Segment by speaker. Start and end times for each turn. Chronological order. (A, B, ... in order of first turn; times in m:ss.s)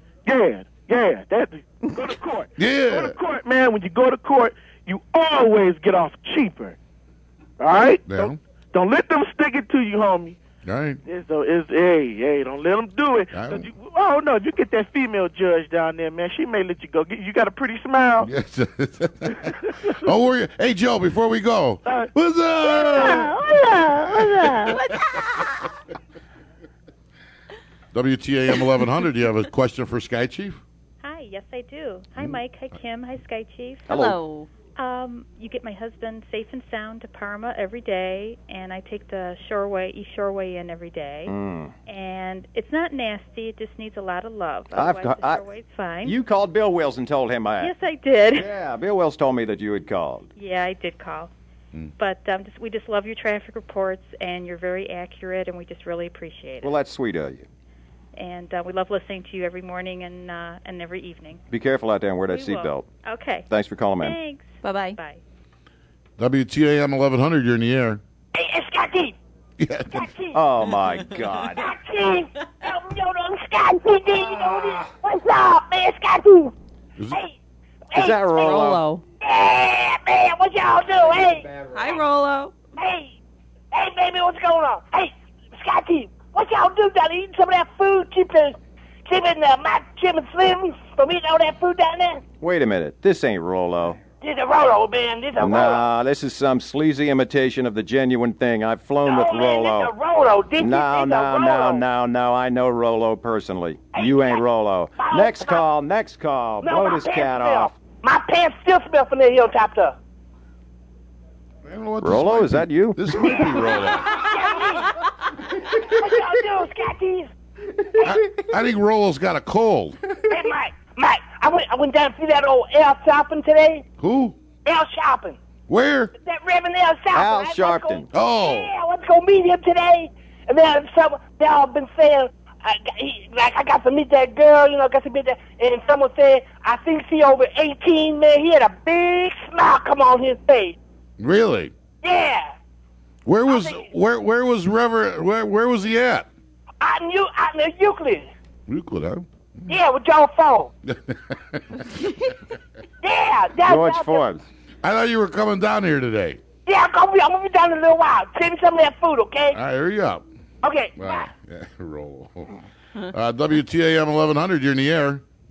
0:00.3-0:06.8 A
0:02.6-0:03.2 B
0:07.6-0:10.4 A
0:08.1-0:08.4 B
0:10.6-0:11.0 B
0:11.0-0:18.3 A
0:13.3-0:13.7 B
0:18.2-0:23.3 B
0:19.5-0:19.9 A
0:21.8-0:22.1 A
0:22.6-0:24.9 C
0:24.2-0:24.7 B
0:27.9-0:30.6 B
0:31.0-0:33.8 D
0:33.9-0:34.2 E
0:33.9-0:34.5 F
0:34.8-0:41.3 D
0:41.3-0:41.8 E
0:41.9-0:46.2 D
0:44.7-0:45.5 E
0:46.0-0:47.7 E
0:47.6-0:48.5 D
0:48.3-0:50.3 E
0:50.4-0:51.3 D
0:52.0-0:56.7 D
0:56.6-0:57.5 E
0:58.2-1:01.4 D
1:01.5-1:02.9 E
1:02.3-1:03.5 D
1:03.5-1:04.2 E
1:04.0-1:05.2 D
1:04.6-1:05.0 F
1:06.2-1:08.0 B
1:08.4-1:09.2 C
1:09.6-1:10.0 B
1:09.9-1:10.4 C
1:10.3-1:11.7 E
1:11.6-1:16.5 C
1:17.9-1:18.6 C
1:18.0-1:18.8 E
1:18.3-1:19.0 F
1:19.2-1:21.5 C
1:21.7-1:22.5 F
1:22.8-1:23.1 C
1:23.7-1:32.2 C
1:32.4-1:34.0 E
1:34.2-1:35.8 C
1:35.4-1:39.9 E
1:39.0-1:41.8 C
1:40.6-1:47.7 E
1:43.9-1:44.4 C
1:45.0-1:45.6 C
1:46.6-1:50.0 C
1:51.7-1:54.3 B
1:52.0-1:53.1 E
1:53.3-1:55.0 C
1:55.7-1:57.3 C
1:58.0-2:00.0 B
2:00.3-2:03.8 C
2:04.0-2:04.4 B
2:04.6-2:05.4 C
2:05.7-2:06.1 B
2:06.2-2:20.8 C
2:07.1-2:08.1 E
2:08.1-2:08.7 B
2:21.2-2:21.7 B
2:22.0-2:22.5 C
2:23.3-2:26.3 B
2:23.5-2:23.8 C
2:26.8-2:28.3 C
2:28.7-2:29.3 B
2:29.7-2:30.7 C
2:30.9-2:31.9 B
2:33.0-2:34.3 C
2:33.6-2:34.5 E
2:34.8-2:36.4 B
2:36.7-2:39.6 C
2:39.5-2:40.2 B
2:40.6-2:41.3 C
2:41.0-2:45.2 B